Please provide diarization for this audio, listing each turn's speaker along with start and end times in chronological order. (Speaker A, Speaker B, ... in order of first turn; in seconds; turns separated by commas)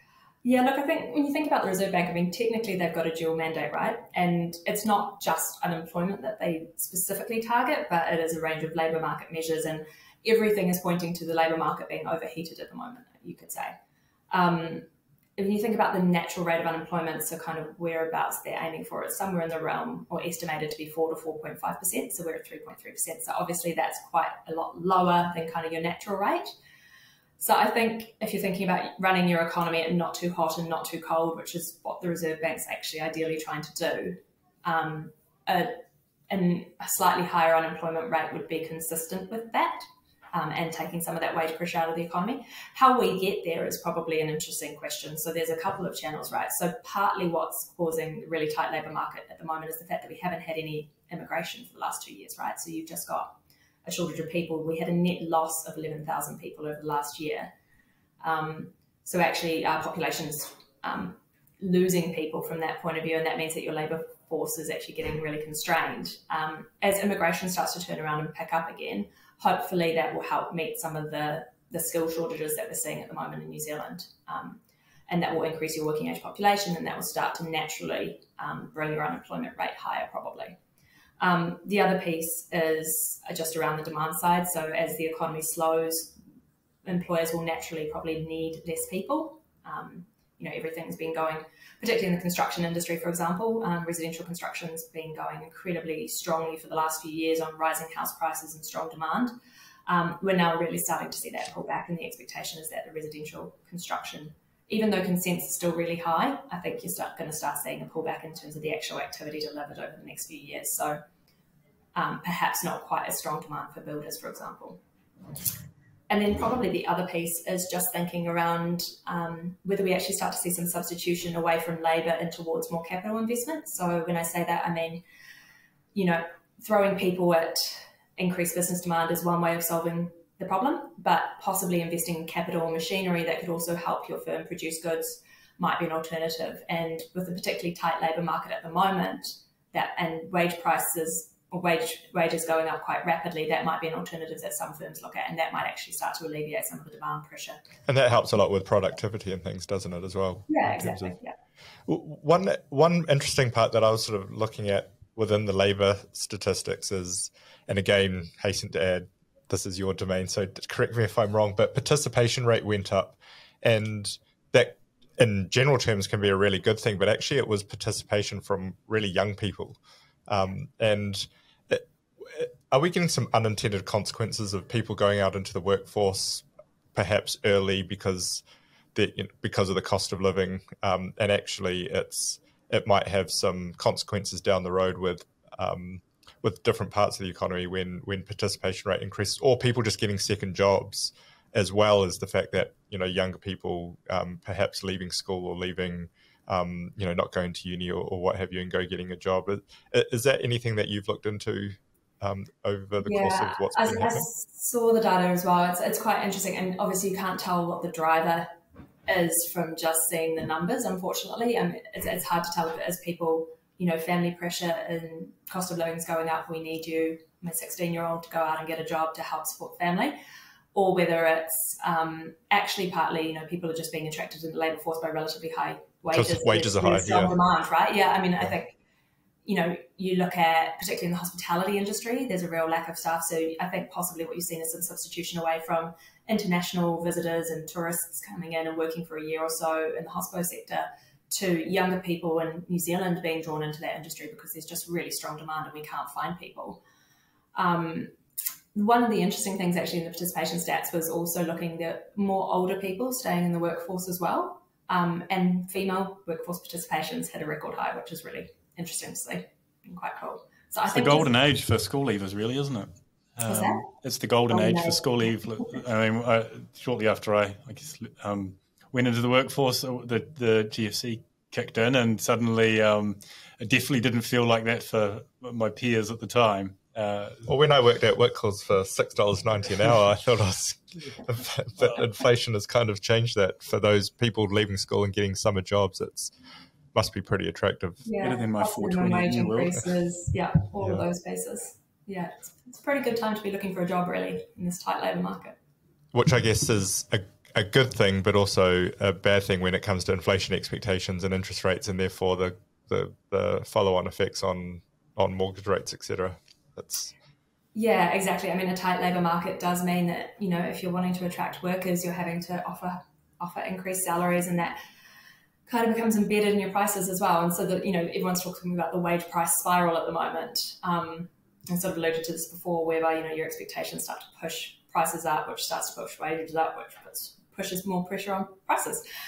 Speaker A: 0.4-13.7, Speaker A: 14.3-14.8, Speaker A: 15.4-26.5, Speaker A: 27.4-57.5, Speaker A: 58.2-80.6, Speaker A: 81.2-86.1, Speaker A: 86.8-99.3, Speaker A: 99.9-111.0, Speaker A: 111.9-114.8, Speaker A: 116.1-125.0, Speaker A: 125.9-147.6, Speaker B: 147.9-151.2, Speaker A: 150.5-151.3, Speaker B: 151.8-178.4, Speaker B: 178.9-204.2, Speaker A: 203.0-208.5, Speaker A: 209.1-220.2, Speaker A: 220.7-228.8, Speaker B: 226.1-227.3, Speaker A: 229.4-246.8, Speaker A: 247.5-248.1, Speaker A: 248.7-261.3, Speaker C: 260.9-277.5, Speaker A: 263.5-263.9, Speaker A: 264.5-265.0, Speaker B: 277.5-286.3, Speaker B: 286.9-288.0, Speaker A: 288.0-295.6, Speaker C: 288.2-289.8, Speaker B: 296.1-307.1, Speaker A: 307.7-314.8, Speaker A: 315.7-329.0